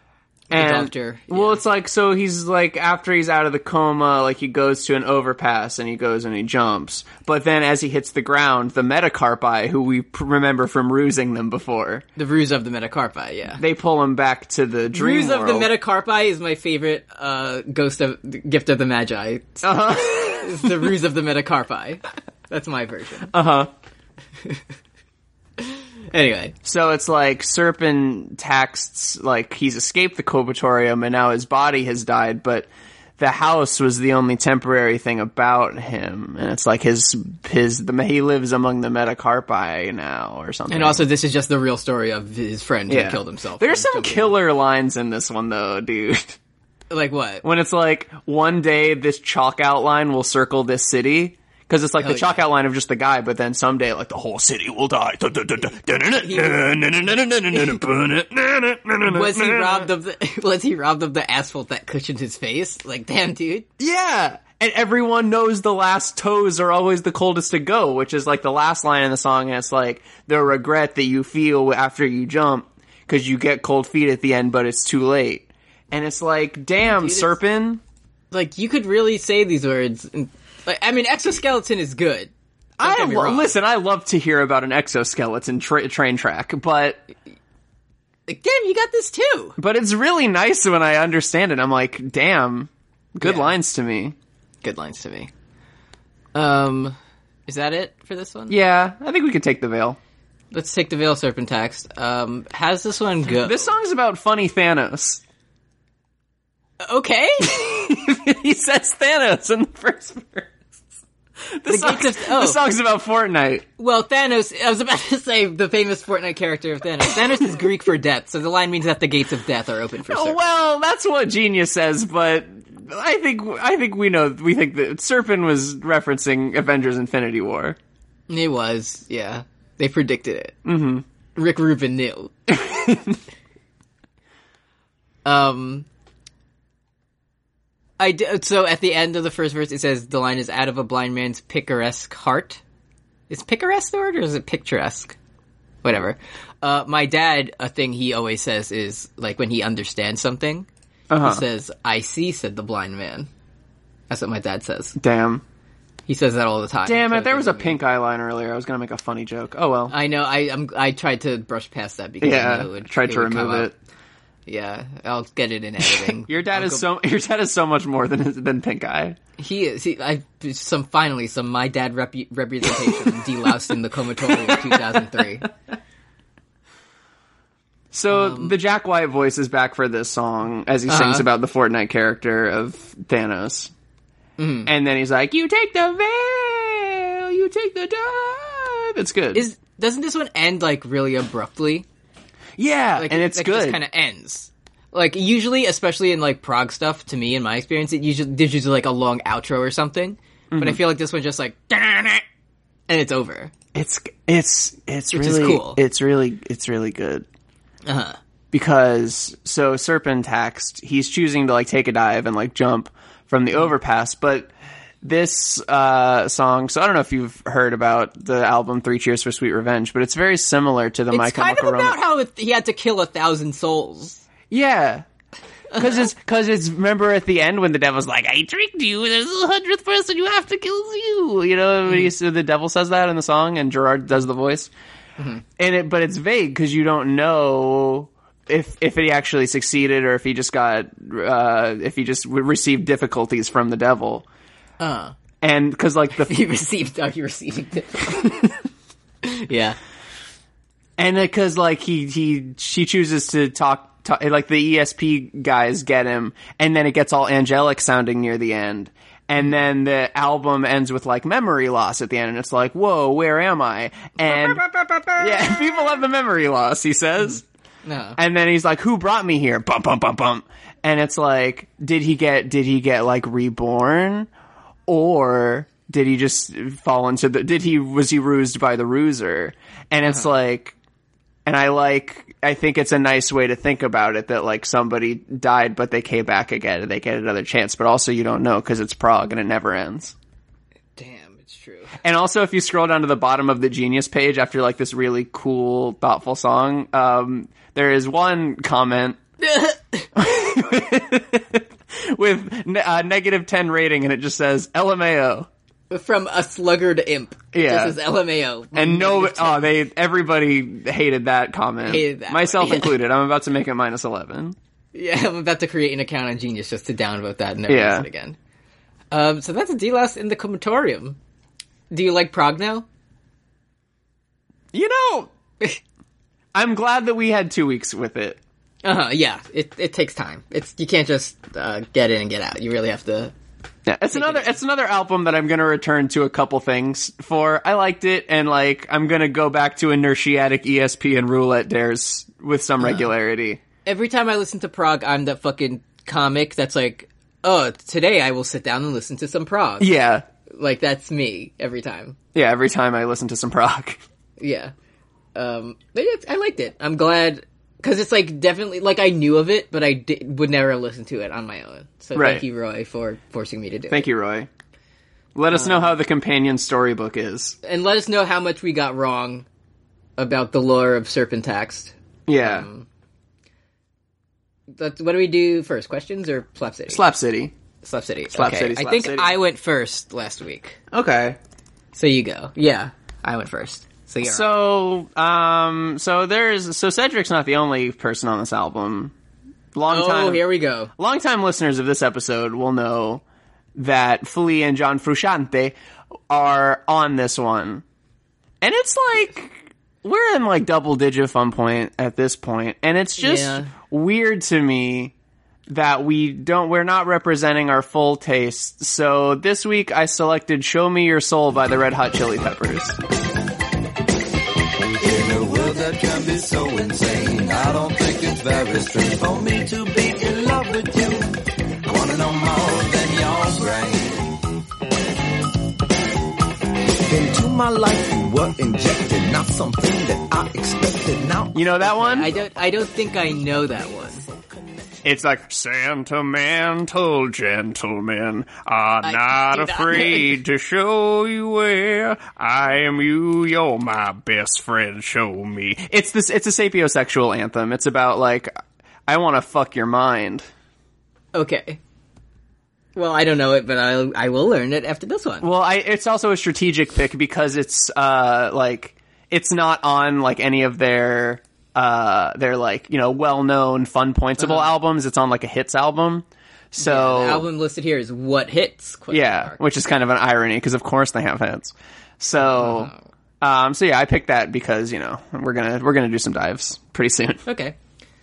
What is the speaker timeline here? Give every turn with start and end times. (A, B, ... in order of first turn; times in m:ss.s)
0:00.5-0:01.6 A
0:00.5-0:12.0 B
0:12.2-0:13.6 A
0:13.6-0:15.7 B
0:14.9-0:23.3 A
0:19.6-0:20.9 B
0:23.3-0:23.7 B
0:25.6-0:26.6 A
0:26.6-0:41.0 B
0:40.7-0:44.4 A
0:42.9-0:46.4 B
0:46.9-0:47.4 A
0:47.4-0:59.9 B
0:52.0-0:52.4 A
0:56.2-0:56.9 A
0:59.1-1:03.7 A
1:03.8-1:17.8 B
1:16.8-1:17.3 A
1:18.3-1:22.3 A
1:22.8-1:27.0 B
1:22.8-1:23.6 A
1:28.3-1:29.6 A
1:29.6-1:34.2 B
1:33.2-1:33.5 A
1:34.6-1:35.3 A
1:36.4-1:38.6 A
1:38.5-1:40.0 B
1:40.5-1:43.7 A
1:43.4-1:45.2 B
1:46.8-1:47.8 A
1:47.5-1:50.6 B
1:51.6-1:53.6 B
1:51.7-1:52.6 A
1:53.8-2:00.4 A
2:00.1-2:07.8 B
2:08.3-2:10.6 A
2:10.6-2:11.0 B
2:11.4-2:12.3 A
2:12.5-2:13.2 B
2:15.2-2:15.9 A
2:18.0-2:22.6 A
2:23.3-2:25.2 A
2:25.8-2:30.7 A
2:31.1-2:31.4 B
2:31.2-2:33.3 A
2:34.1-2:35.0 A
2:35.0-2:35.4 B
2:36.1-2:37.8 A
2:36.8-2:39.9 B
2:39.9-2:43.7 A
2:42.2-2:43.7 B
2:44.5-2:46.8 A
2:46.0-2:49.2 B
2:49.4-2:55.5 A
2:54.4-2:54.8 B
2:57.9-3:03.7 B
2:58.1-2:58.6 A
3:00.9-3:01.3 A
3:04.4-3:04.7 A
3:04.7-3:09.4 B
3:09.3-3:11.8 A
3:12.6-3:13.8 B
3:13.0-3:22.2 A
3:20.5-3:20.8 B
3:22.9-3:23.5 A
3:23.7-3:27.3 B
3:25.1-3:25.8 A
3:27.9-3:28.2 A
3:28.5-3:34.5 B
3:35.0-3:42.0 B
3:41.1-3:44.2 A
3:44.5-3:45.1 B
3:45.7-3:54.7 B
3:55.2-3:55.4 A
3:55.6-4:04.2 B
4:04.8-4:05.2 A
4:05.4-4:06.3 B
4:06.2-4:08.5 A
4:09.2-4:09.8 A
4:11.0-4:24.6 B
4:24.2-4:25.9 A
4:25.2-4:27.4 B
4:27.8-4:28.2 A
4:28.2-4:34.3 B
4:34.9-4:40.8 B
4:41.5-4:50.1 B
4:51.0-4:52.0 A
4:52.0-4:59.2 B
4:59.4-5:00.1 A
5:00.2-5:05.5 B
5:05.9-5:09.7 A
5:07.5-5:08.0 B
5:08.7-5:14.6 B
5:11.8-5:13.0 A
5:14.9-5:18.4 A
5:17.7-5:18.1 B
5:19.1-5:21.2 A
5:21.9-5:22.9 A
5:24.7-5:25.3 B
5:26.5-5:28.4 B
5:28.8-5:33.3 A
5:33.9-5:43.6 B
5:34.1-5:34.6 A
5:43.9-5:49.9 A
5:49.8-5:50.2 B
5:50.5-5:52.2 A
5:52.4-5:54.0 B
5:54.4-5:54.7 A
5:55.4-6:04.0 A
6:02.2-6:02.4 B
6:03.9-6:04.5 B
6:05.4-6:07.6 B
6:05.5-6:06.0 A
6:07.6-6:09.5 A
6:10.2-6:12.9 A
6:12.3-6:12.7 B
6:14.7-6:17.0 A
6:16.9-6:17.5 B
6:17.8-6:20.8 A
6:18.3-6:19.4 B
6:20.9-6:21.4 B
6:21.9-6:24.5 A
6:24.2-6:29.1 B
6:29.7-6:30.4 B
6:29.9-6:30.9 A
6:31.0-6:33.2 B
6:33.8-6:35.7 B
6:36.3-6:37.8 B
6:38.6-6:45.1 B
6:43.2-6:43.7 A
6:45.7-6:53.0 B
6:55.0-7:04.4 C
7:07.1-7:13.3 C
7:11.5-7:12.3 B
7:11.8-7:14.2 A
7:15.0-7:28.5 B
7:19.0-7:20.4 A
7:29.1-7:30.5 B
7:31.3-7:31.8 A
7:33.0-7:35.5 A
7:35.4-7:47.5 B
7:44.4-7:44.7 A
7:46.8-7:49.6 A
7:49.1-7:57.4 B
7:52.4-7:53.0 A
7:57.5-7:57.8 A